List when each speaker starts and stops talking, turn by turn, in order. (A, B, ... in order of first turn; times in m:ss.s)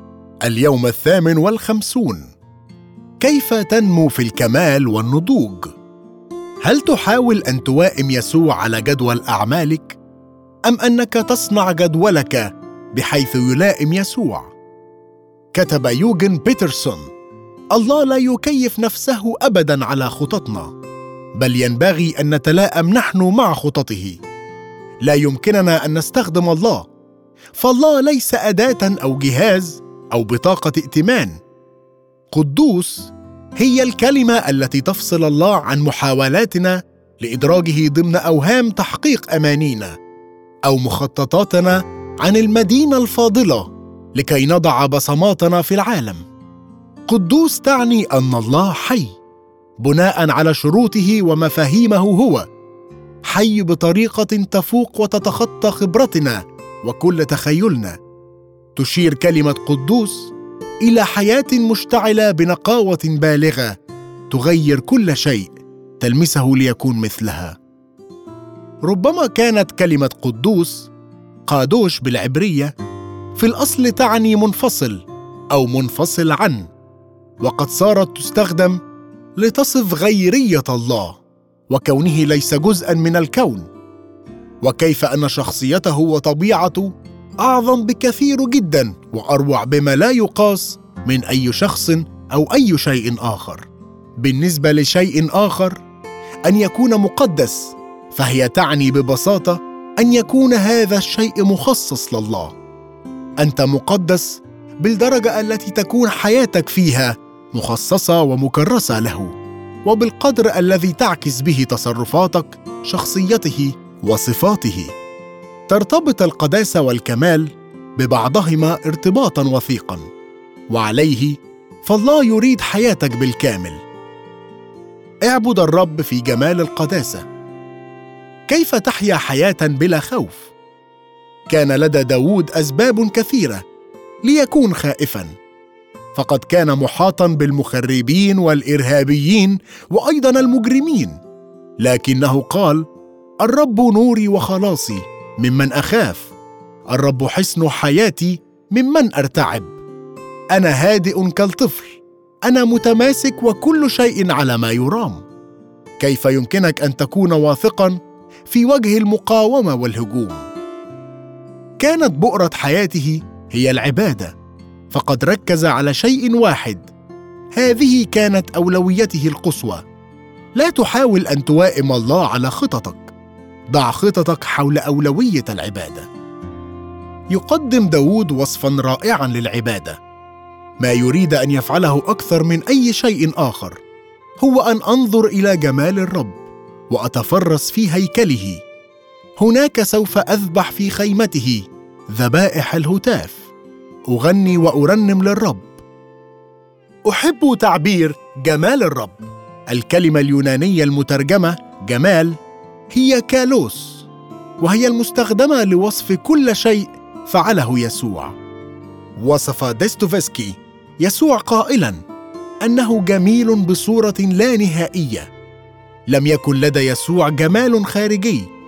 0:00.4-0:02.3 A
0:03.2-0:05.7 A
0:06.6-0:10.0 A
0:10.6-0:14.5 A
0:15.5-0:17.1 A
0:17.7-0:20.7 A
0:21.4-0:24.2 A
0:25.0-0:26.9 A
0:27.6-0:31.4 A
0:32.3-0:40.0 A
0:40.6-0:46.2 A
0:47.1-0:49.2 A
0:49.8-0:52.4 A
0:53.2-0:58.0 A
0:58.8-1:03.8 A
1:04.3-1:07.6 A
1:08.8-1:10.9 A
1:11.4-1:12.7 A
1:13.3-1:16.7 A
1:17.4-1:18.8 A
1:19.4-1:23.7 A
1:24.6-1:33.7 A
1:34.2-1:35.8 A
1:36.4-1:42.5 A
1:43.4-1:49.3 A
1:49.8-1:54.9 A
1:55.7-2:00.0 A
2:00.7-2:03.8 A
2:05.2-2:07.2 A
2:08.5-2:10.5 A
2:11.5-2:13.6 A
2:14.2-2:15.3 A
2:16.1-2:21.2 A
2:21.8-2:22.8 A
2:23.4-2:26.3 A
2:26.9-2:29.8 A
2:30.5-2:35.2 A
2:36.0-2:40.4 A
2:41.8-2:44.3 A
2:44.9-2:46.9 A
2:47.5-2:49.8 A
2:50.6-2:53.1 A
2:53.7-2:56.1 A
2:57.3-3:00.0 A
3:00.8-3:03.8 A
3:04.4-3:08.6 A
3:09.4-3:13.5 A
3:14.1-3:15.7 A
3:17.0-3:22.4 A
3:22.9-3:24.1 A
3:24.6-3:28.3 A
3:29.2-3:32.0 A
3:32.6-3:35.3 A
3:36.1-3:38.5 A